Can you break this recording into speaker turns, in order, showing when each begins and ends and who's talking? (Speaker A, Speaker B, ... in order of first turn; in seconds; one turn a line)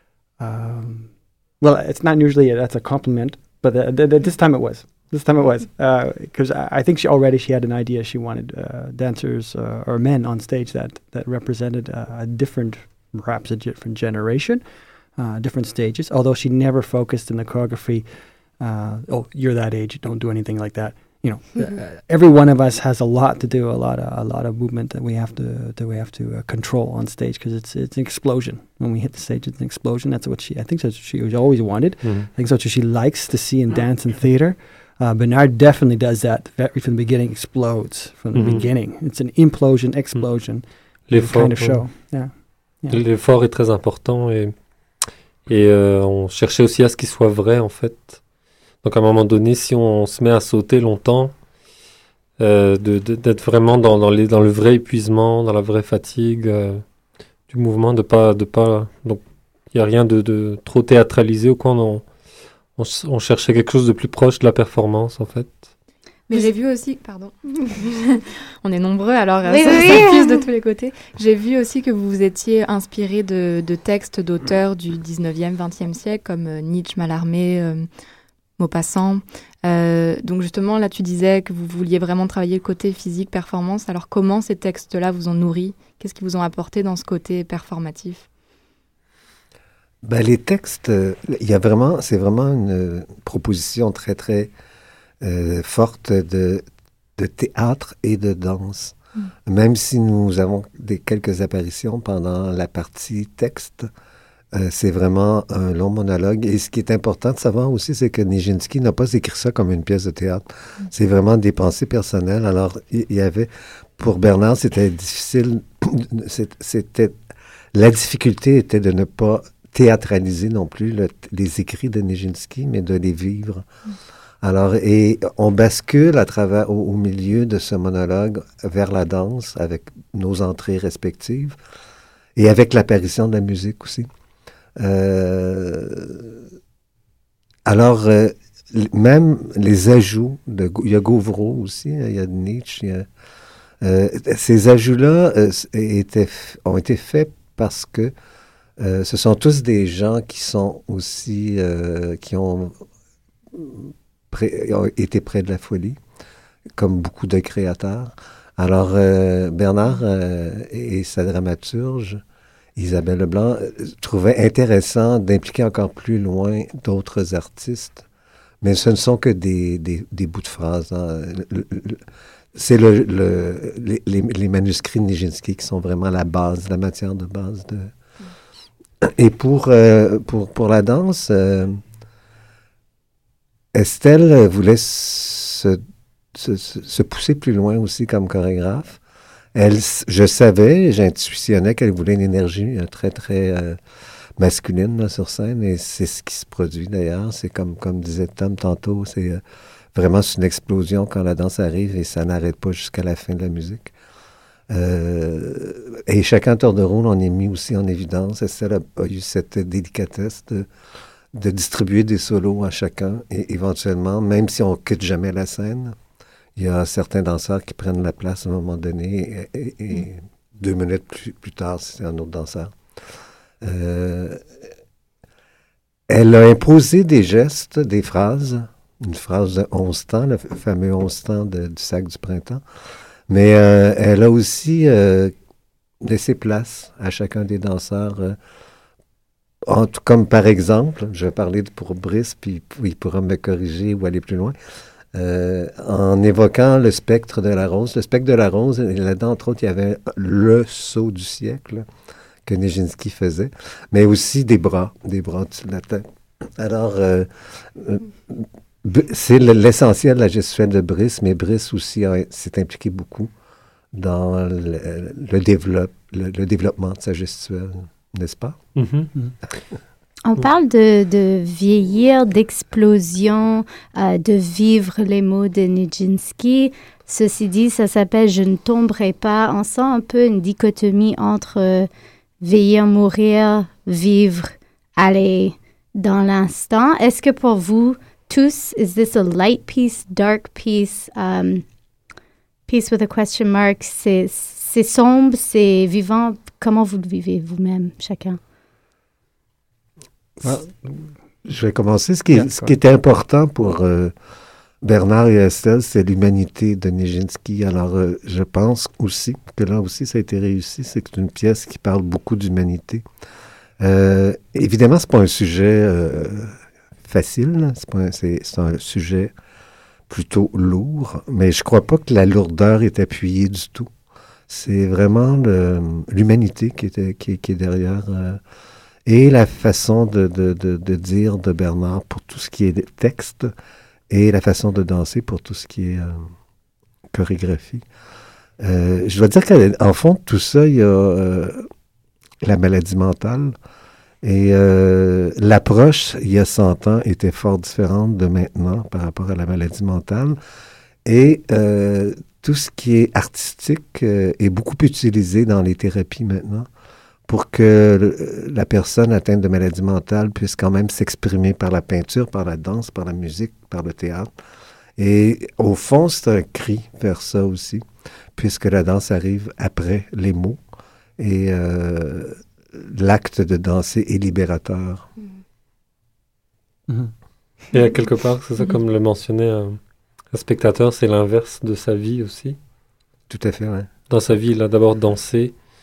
Speaker A: 0.4-43.0
Speaker B: 32.0-32.3
Speaker B: 38.3-38.7
Speaker B: 41.1-41.9
Speaker B: 42.9-44.5
Speaker B: 45.5-48.2
Speaker B: 48.8-51.3
Speaker B: 52.4-56.9
Speaker B: 57.5-62.0
Speaker B: 62.8-65.7
Speaker C: 66.3-77.9
Speaker D: 69.5-70.4
Speaker C: 78.6-88.2
Speaker E: 90.0-94.5
Speaker E: 95.2-96.6
Speaker E: 97.2-103.9
Speaker E: 104.5-117.2
Speaker E: 117.7-123.7
Speaker E: 124.4-131.6
Speaker E: 132.4-134.1
Speaker E: 134.8-136.4
Speaker E: 137.7-143.1
Speaker E: 143.8-148.1
Speaker E: 148.8-152.7
Speaker E: 153.5-156.0
Speaker E: 156.8-162.2
Speaker E: 162.8-168.1
Speaker E: 168.6-172.0
Speaker E: 172.6-177.9
Speaker E: 179.0-181.8
Speaker E: 183.7-185.8
Speaker E: 186.3-189.0
Speaker E: 189.6-193.8
Speaker E: 194.4-199.4
Speaker E: 199.9-203.9
Speaker E: 204.7-210.7
Speaker E: 211.3-216.0
Speaker E: 216.6-222.8
Speaker E: 223.6-224.5
Speaker E: 226.1-232.6
Speaker E: 233.3-235.3
Speaker E: 236.0-238.4
Speaker E: 239.7-244.6
Speaker E: 245.1-251.9
Speaker E: 252.5-263.3
Speaker E: 263.9-268.6
Speaker B: 268.8-269.1
Speaker D: 270.3-281.9
Speaker D: 282.4-291.6
Speaker D: 292.7-298.4
Speaker A: 300.4-301.1
Speaker E: 301.5-304.1
Speaker A: 302.3-302.8
Speaker E: 304.8-313.1
Speaker E: 313.8-319.3
Speaker E: 320.1-323.9
Speaker E: 324.5-328.4
Speaker E: 329.1-333.5
Speaker E: 334.1-336.3
Speaker E: 337.1-337.8
Speaker E: 338.6-341.7
Speaker E: 342.4-343.6
Speaker E: 344.2-350.4
Speaker E: 351.1-356.7
Speaker E: 357.3-364.3
Speaker E: 365.0-367.8
Speaker E: 368.4-370.6
Speaker E: 371.2-375.1
Speaker B: 377.7-379.8
Speaker B: 380.3-382.6
Speaker E: 383.3-383.9
Speaker B: 384.1-385.6